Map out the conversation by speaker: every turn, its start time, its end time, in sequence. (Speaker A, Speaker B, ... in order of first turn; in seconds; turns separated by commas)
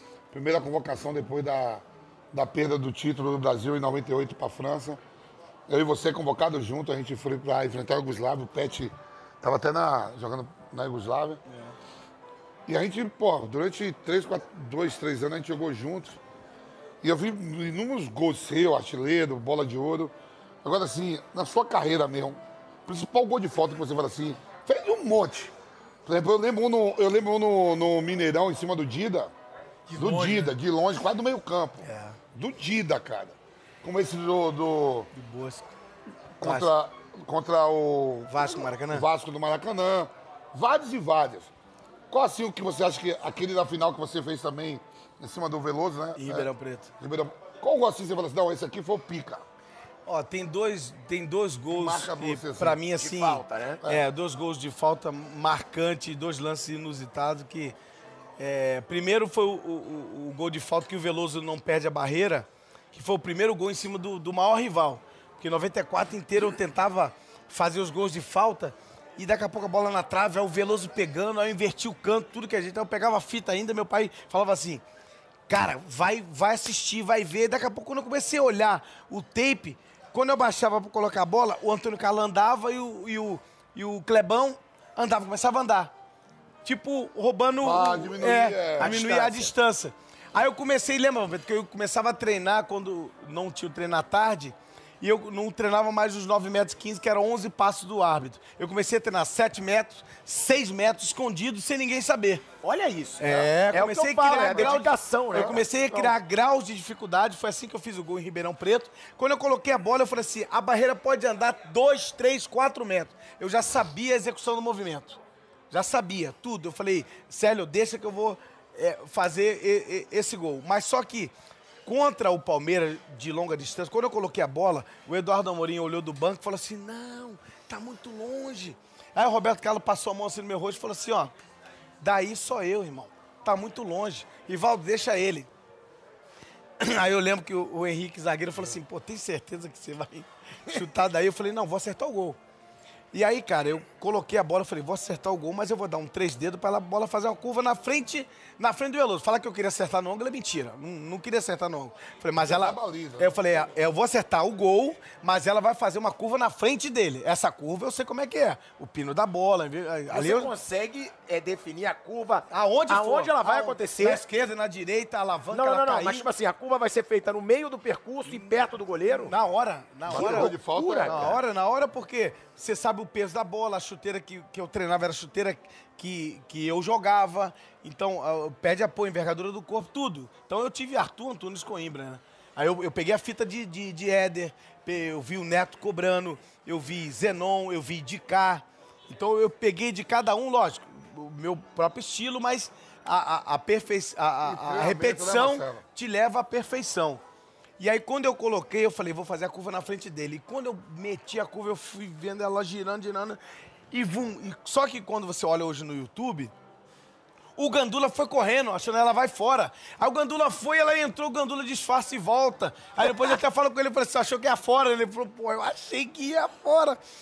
Speaker A: 0.3-5.0, Speaker A: 5.7-11.4, Speaker B: 11.5-11.7, Speaker A: 12.7-16.2, Speaker A: 17.0-25.5, Speaker A: 26.1-29.3, Speaker B: 29.9-30.5, Speaker A: 30.0-35.1, Speaker B: 31.8-32.2, Speaker B: 35.1-35.7, Speaker A: 36.4-41.5, Speaker B: 36.4-36.7, Speaker B: 38.3-39.0, Speaker A: 42.1-46.5, Speaker B: 46.1-46.9, Speaker A: 47.0-49.4, Speaker B: 50.0-57.7, Speaker A: 51.7-52.8, Speaker C: 52.9-53.8, Speaker B: 58.4-74.8, Speaker B: 75.5-85.9, Speaker B: 86.6-102.4, Speaker A: 87.6-88.9, Speaker C: 88.8-89.5, Speaker C: 102.6-105.6, Speaker B: 103.2-115.2, Speaker B: 115.7-121.3, Speaker B: 121.8-131.3, Speaker B: 132.0-135.5, Speaker B: 136.8-142.4, Speaker B: 143.1-160.5, Speaker A: 152.4-153.4, Speaker C: 160.1-164.2, Speaker B: 162.5-166.3, Speaker C: 165.5-169.3, Speaker B: 169.1-197.2, Speaker A: 170.1-171.3, Speaker C: 170.1-171.4, Speaker A: 194.4-195.8, Speaker B: 197.8-203.4, Speaker B: 203.9-206.5, Speaker B: 207.6-217.0